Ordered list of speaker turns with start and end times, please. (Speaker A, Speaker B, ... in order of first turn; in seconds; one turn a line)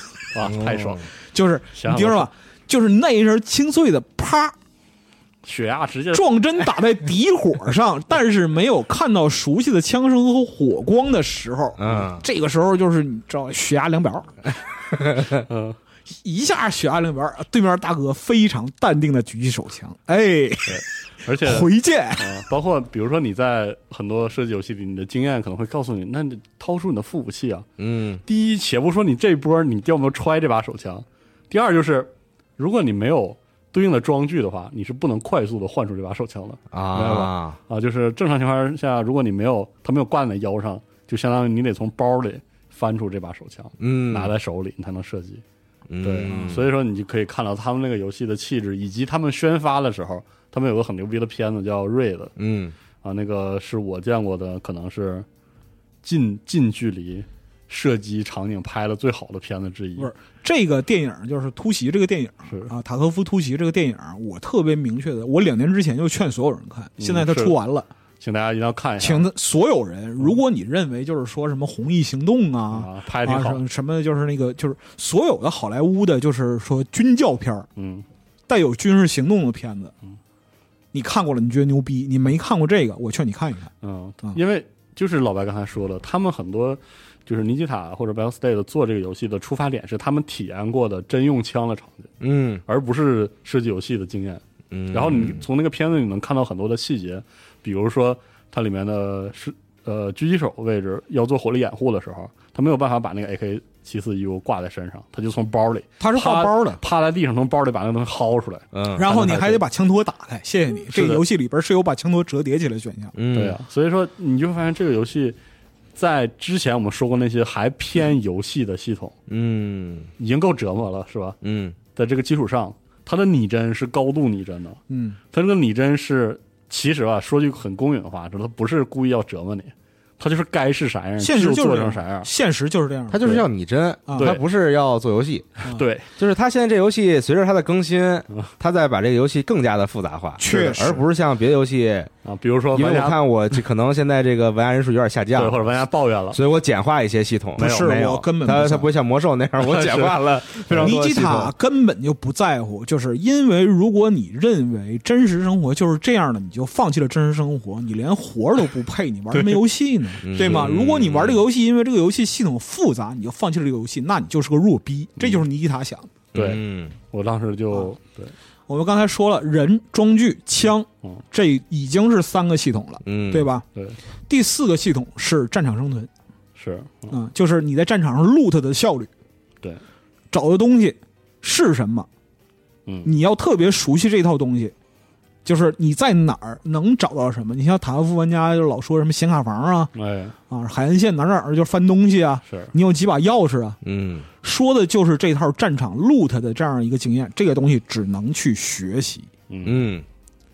Speaker A: 0.3-1.1
Speaker B: 0.5-1.0
Speaker C: 1.3-4.6
Speaker A: 1.7-2.3
Speaker A: 5.4-6.3
Speaker C: 6.1-14.4
Speaker B: 11.8-12.2
Speaker A: 15.4-15.8
Speaker C: 16.1-20.9
Speaker A: 20.7-27.7
Speaker C: 21.4-22.4
Speaker B: 27.8-28.2
Speaker A: 28.2-45.4
Speaker B: 36.7-37.6
Speaker B: 43.8-44.3
Speaker B: 45.9-46.6
Speaker A: 46.0-52.3
Speaker C: 46.3-46.6
Speaker B: 52.4-52.8
Speaker A: 53.0-55.3
Speaker A: 56.0-60.1
Speaker C: 60.0-67.9
Speaker A: 62.5-62.7
Speaker A: 67.0-67.6
Speaker A: 68.2-69.3
Speaker C: 69.0-77.7
Speaker A: 72.7-73.6
Speaker A: 77.8-78.1
Speaker C: 78.5-79.9
Speaker C: 80.9-83.7
Speaker A: 83.8-92.1
Speaker B: 92.2-92.6
Speaker A: 92.7-109.6
Speaker B: 94.7-95.4
Speaker C: 106.0-106.8
Speaker B: 108.7-109.0
Speaker C: 109.0-113.1
Speaker A: 110.9-111.2
Speaker B: 113.2-113.6
Speaker A: 113.3-115.4
Speaker A: 116.0-119.2
Speaker B: 119.3-120.1
Speaker A: 120.2-121.4
Speaker B: 121.4-121.8
Speaker A: 121.9-124.8
Speaker C: 124.9-125.2
Speaker A: 125.3-132.3
Speaker C: 131.2-133.2
Speaker B: 133.1-135.7
Speaker A: 133.2-133.5
Speaker C: 134.1-134.3
Speaker A: 134.2-134.4
Speaker A: 135.7-136.1
Speaker B: 136.2-142.1
Speaker C: 140.4-141.0
Speaker A: 140.5-141.0
Speaker A: 142.2-143.2
Speaker B: 142.7-145.6
Speaker A: 145.3-146.4
Speaker B: 146.3-151.5
Speaker C: 147.6-148.9
Speaker A: 147.6-148.0
Speaker A: 149.6-150.9
Speaker C: 150.7-166.1
Speaker A: 159.3-159.6
Speaker B: 160.2-161.4
Speaker B: 166.3-166.9
Speaker A: 166.3-168.3
Speaker C: 168.7-173.7
Speaker B: 173.1-173.5
Speaker C: 174.3-176.1
Speaker A: 176.6-177.2
Speaker C: 177.1-179.1
Speaker C: 180.3-182.1
Speaker A: 182.9-183.1
Speaker C: 183.1-184.8
Speaker C: 185.4-189.9
Speaker A: 189.9-190.4
Speaker C: 190.5-193.8
Speaker A: 192.5-192.7
Speaker B: 193.8-194.3
Speaker C: 194.4-199.3
Speaker A: 199.5-199.9
Speaker B: 199.6-200.1